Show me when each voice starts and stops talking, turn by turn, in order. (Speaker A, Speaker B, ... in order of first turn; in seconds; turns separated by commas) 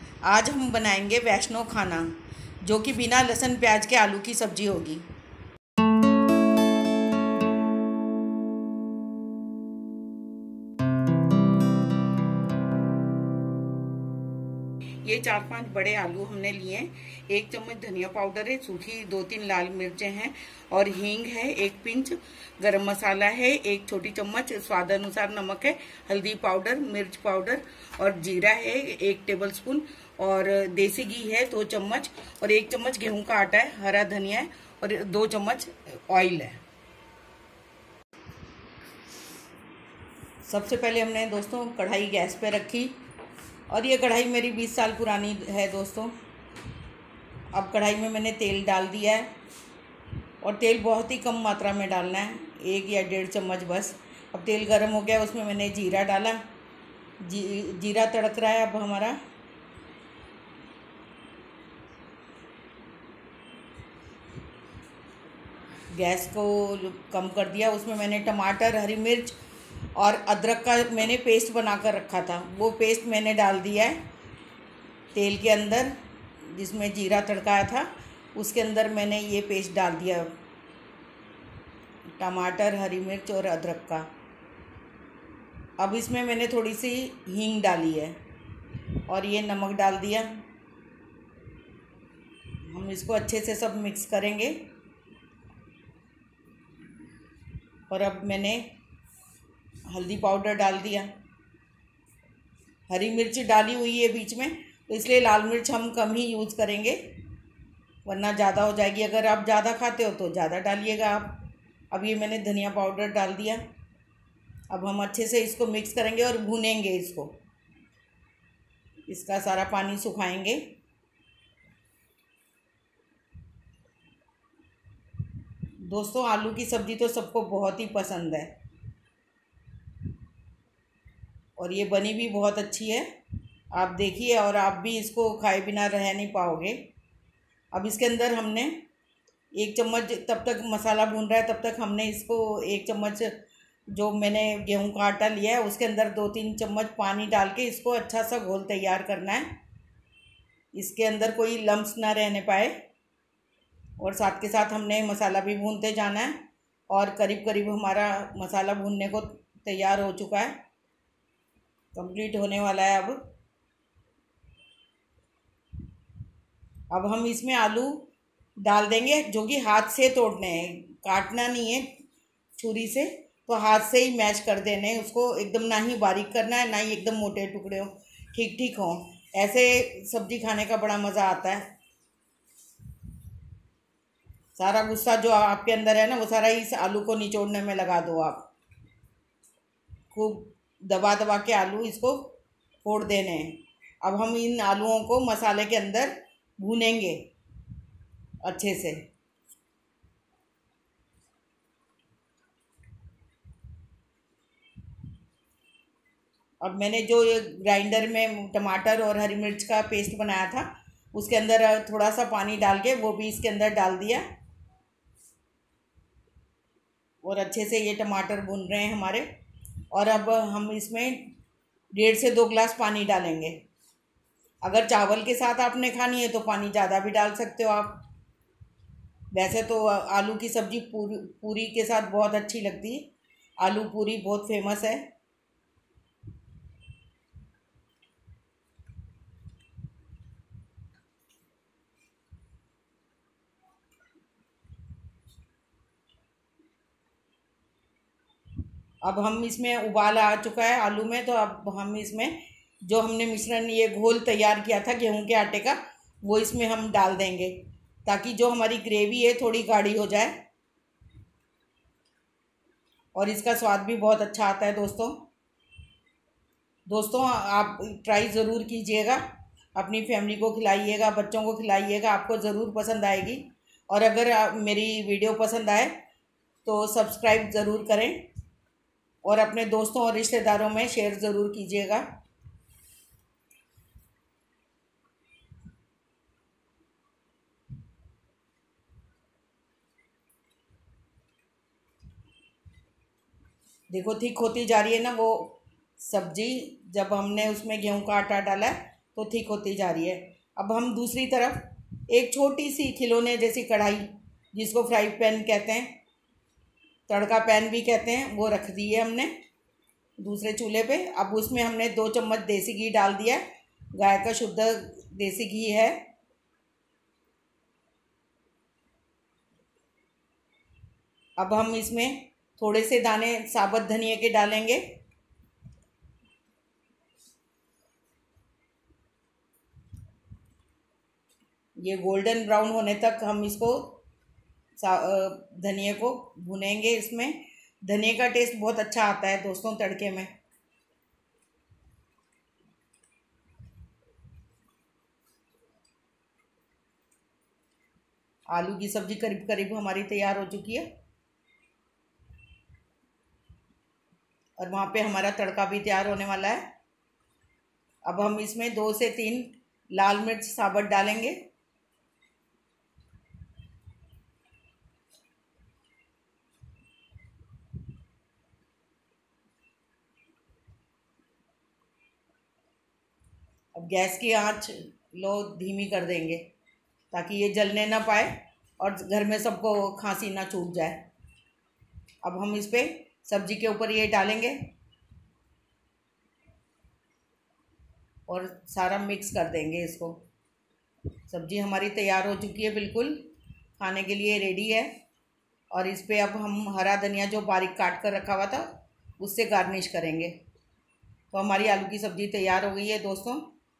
Speaker A: 0.2-5.1, Speaker A: 15.0-36.6, Speaker A: 40.4-43.0, Speaker A: 43.7-46.2, Speaker A: 47.5-49.3, Speaker A: 50.4-56.4, Speaker A: 57.2-59.2, Speaker A: 65.9-69.3, Speaker A: 69.9-74.0, Speaker A: 75.1-80.4, Speaker A: 82.2-84.1, Speaker A: 85.8-88.2, Speaker A: 89.0-90.4, Speaker A: 92.7-94.6, Speaker A: 97.9-98.7, Speaker A: 99.9-101.1, Speaker A: 102.9-107.1, Speaker A: 108.0-113.6, Speaker A: 114.7-117.3, Speaker A: 119.1-120.7, Speaker A: 125.8-128.5, Speaker A: 131.6-133.1, Speaker A: 133.7-136.8, Speaker A: 137.7-138.8, Speaker A: 139.5-149.5, Speaker A: 150.7-152.7, Speaker A: 154.0-156.4, Speaker A: 156.9-160.6, Speaker A: 161.9-163.2, Speaker A: 166.9-168.1, Speaker A: 168.6-171.9, Speaker A: 172.6-181.7, Speaker A: 184.5-188.5, Speaker A: 190.1-197.2, Speaker A: 198.4-199.0, Speaker A: 206.6-214.2, Speaker A: 217.2-219.3, Speaker A: 219.9-221.3, Speaker A: 221.9-223.6, Speaker A: 224.6-228.1, Speaker A: 229.3-235.1, Speaker A: 249.0-260.4, Speaker A: 263.1-265.3, Speaker A: 266.9-269.2, Speaker A: 269.7-275.9, Speaker A: 276.6-278.3, Speaker A: 279.2-282.1, Speaker A: 293.9-306.0, Speaker A: 307.1-309.3, Speaker A: 310.2-316.0, Speaker A: 321.4-324.8, Speaker A: 331.8-334.0, Speaker A: 334.8-340.3, Speaker A: 348.5-350.9, Speaker A: 354.6-356.6, Speaker A: 358.0-361.4, Speaker A: 373.7-376.4, Speaker A: 377.1-381.1, Speaker A: 382.2-384.7, Speaker A: 388.3-390.2, Speaker A: 391.2-394.9, Speaker A: 395.7-400.4, Speaker A: 401.3-403.5